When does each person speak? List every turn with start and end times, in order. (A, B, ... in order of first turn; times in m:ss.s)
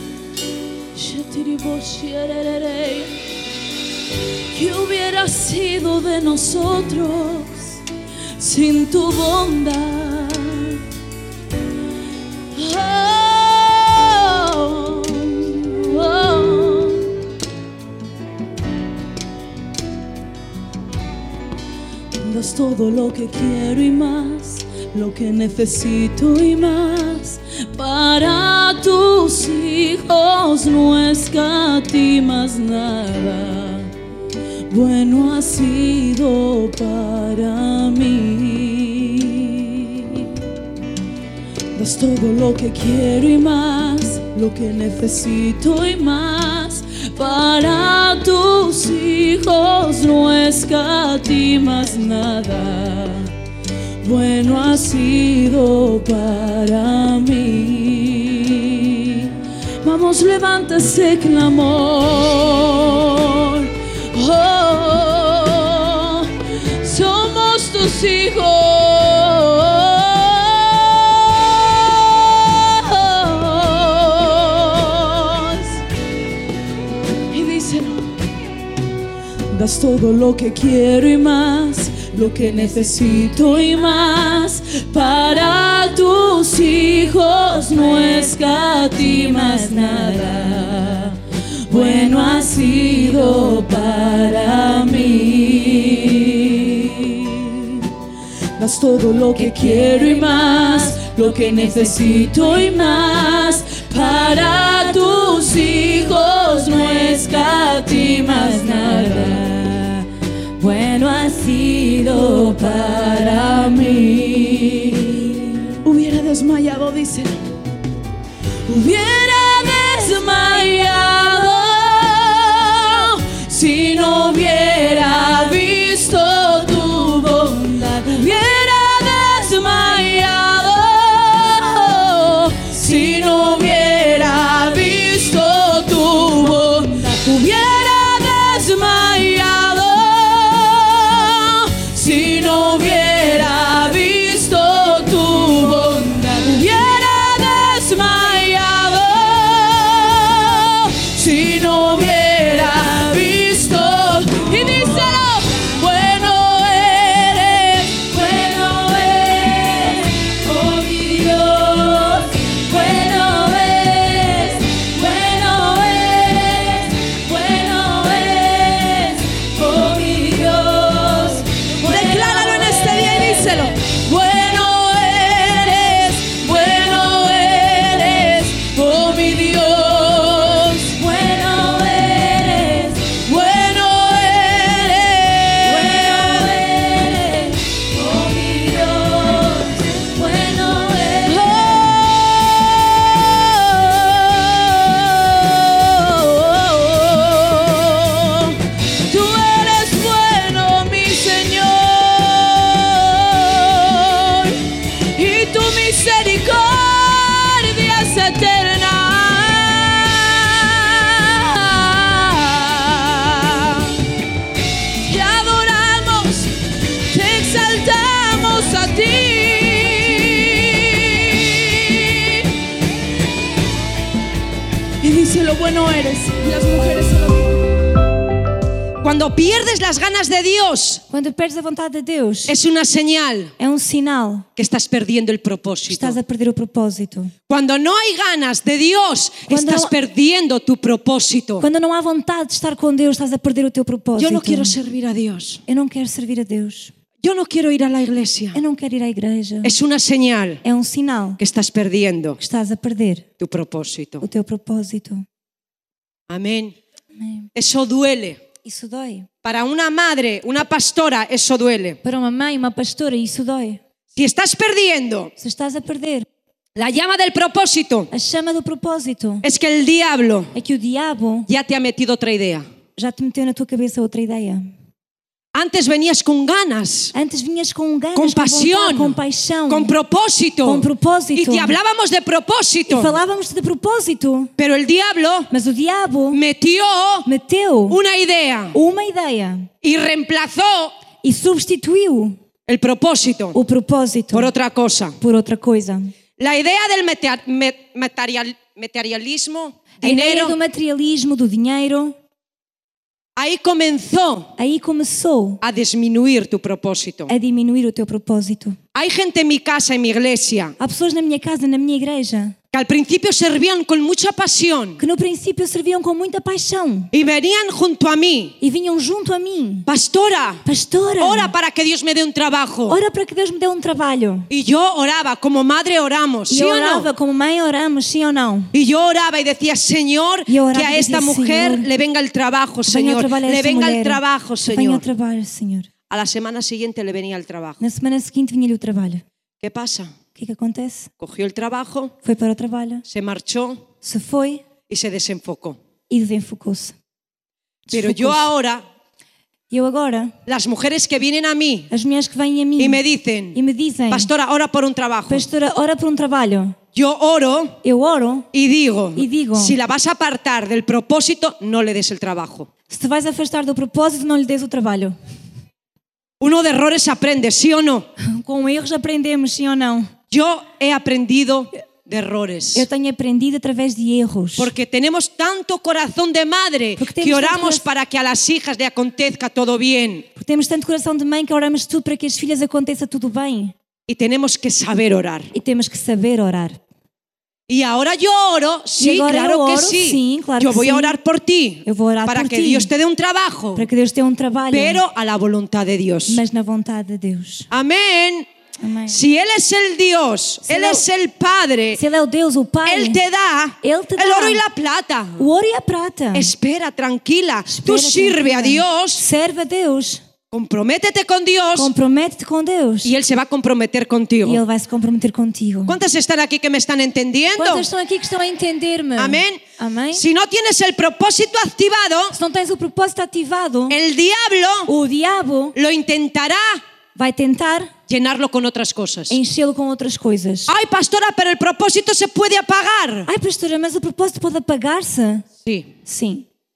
0:00.9-0:03.1 A
0:04.5-0:07.8 A
0:08.4-0:10.8 A
0:12.5-0:17.1 A
0:22.2-0:33.9 A
0:34.7-0:40.3 A
0:41.7-0:53.3 A
0:54.0-1:15.8 A
1:17.3-1:18.1 A
1:19.5-1:31.2 A
1:31.7-1:37.9 A
1:38.6-1:50.0 A
1:48.7-1:49.3 B
1:50.6-1:52.9 B
1:52.2-1:57.5 A
1:58.7-3:34.0 A
3:35.0-3:36.6 A
3:37.1-3:42.5 A
3:45.0-3:47.6 A
3:49.0-3:51.0 C
3:51.1-3:52.5 B
3:52.5-3:53.5 C
3:53.6-3:54.4 B
3:54.6-3:56.2 C
3:55.9-3:57.3 B
3:57.5-4:01.7 C
3:59.5-3:59.9 B
4:01.6-4:04.8 B
4:04.2-4:05.6 C
4:05.7-4:06.9 B
4:07.2-4:08.6 C
4:08.5-4:09.8 B
4:09.6-4:10.6 C
4:10.6-4:11.4 B
4:11.4-4:12.4 C
4:12.4-4:13.2 B
4:13.4-4:14.2 C
4:14.2-4:15.2 B
4:16.3-4:16.8 C
4:17.2-4:17.5 B
4:17.5-4:18.4 C
4:18.6-4:19.3 B
4:19.4-4:22.0 C
4:22.0-4:23.8 B
4:24.2-4:25.3 C
4:25.4-4:26.2 B
4:26.7-4:28.1 C
4:28.1-4:29.4 B
4:29.4-4:30.5 C
4:30.5-4:31.5 B
4:31.5-4:32.6 C
4:33.0-4:34.6 B
4:35.5-4:37.1 C
4:37.1-4:39.9 B
4:38.1-4:39.2 C
4:39.7-4:43.2 C
4:40.6-4:41.8 B
4:42.9-4:44.5 B
4:44.6-4:45.5 C
4:45.5-4:46.4 B
4:46.3-4:47.2 C
4:47.2-4:48.0 B
4:47.9-4:48.8 C
4:48.7-4:49.7 B
4:49.8-4:50.9 C
4:51.2-4:52.4 B
4:52.7-4:53.6 C
4:53.5-4:54.5 B
4:54.3-4:55.2 C
4:55.2-4:56.1 B
4:56.4-5:00.6 C
5:00.0-5:02.1 B
5:03.4-5:04.5 C
5:04.6-5:05.6 B
5:05.6-5:07.3 C
5:07.3-5:08.8 B
5:08.9-5:10.8 C
5:10.8-5:12.6 B
5:12.7-5:15.0 C
5:15.0-5:17.1 B
5:17.1-5:18.6 C
5:18.6-5:19.9 B
5:19.9-5:20.6 C
5:20.6-5:21.5 B
5:21.2-5:23.0 C
5:22.9-5:24.5 B
5:24.5-5:27.1 C
5:26.5-5:28.7 B
5:28.7-5:35.0 C
5:30.5-5:31.9 B
5:32.8-5:35.9 B
5:36.1-5:37.8 C
5:37.8-5:39.2 B
5:39.6-5:40.1 C
5:40.4-5:41.1 B
5:41.2-5:42.1 C
5:42.2-5:43.0 B
5:43.1-5:43.8 C
5:44.0-5:44.6 B
5:44.9-5:45.8 C
5:46.1-5:47.0 B
5:47.9-5:48.5 B
5:47.9-5:48.8 C
5:49.7-5:50.3 B
5:50.4-5:51.9 C
5:51.9-5:53.0 B
5:52.8-5:53.6 C
5:53.5-5:54.3 B
5:54.1-5:55.5 C
5:55.3-5:56.8 B
5:56.9-5:57.8 C
5:57.8-5:58.5 B
5:58.5-6:02.7 C
5:59.2-5:59.8 B
6:02.9-6:05.1 B
6:06.4-6:08.1 C
6:08.3-6:10.1 B
6:10.3-6:12.9 C
6:12.7-6:14.7 B
6:14.6-6:20.2 C
6:17.0-6:17.8 B
6:20.3-6:23.7 B
6:24.1-6:25.5 C
6:25.5-6:26.8 B
6:27.7-6:33.9 C
6:29.0-6:31.1 B
6:31.8-6:32.9 B
6:33.8-6:35.0 B
6:34.7-6:36.4 C
6:36.3-6:37.7 B
6:37.7-6:38.5 C
6:38.8-6:39.2 B
6:39.1-6:42.0 C
6:40.7-6:41.0 B
6:42.0-6:43.2 B
6:42.8-6:45.5 C
6:43.8-6:44.6 B
6:45.4-6:46.5 B
6:46.3-6:49.2 C
6:47.7-6:50.2 B
6:50.5-6:51.9 C
6:51.7-6:53.1 B
6:53.0-6:54.6 C
6:54.4-6:56.0 B
6:55.9-6:57.9 C
6:57.6-7:00.2 B
6:59.2-6:59.6 C
7:00.1-7:02.4 C
7:02.3-7:04.0 B
7:03.9-7:04.9 C
7:04.9-7:05.7 B
7:05.7-7:06.8 C
7:07.2-7:07.9 B
7:08.1-7:09.4 C
7:09.3-7:10.7 B
7:10.7-7:13.3 C
7:13.3-7:15.4 B
7:15.6-7:15.9 C
7:16.0-7:16.4 B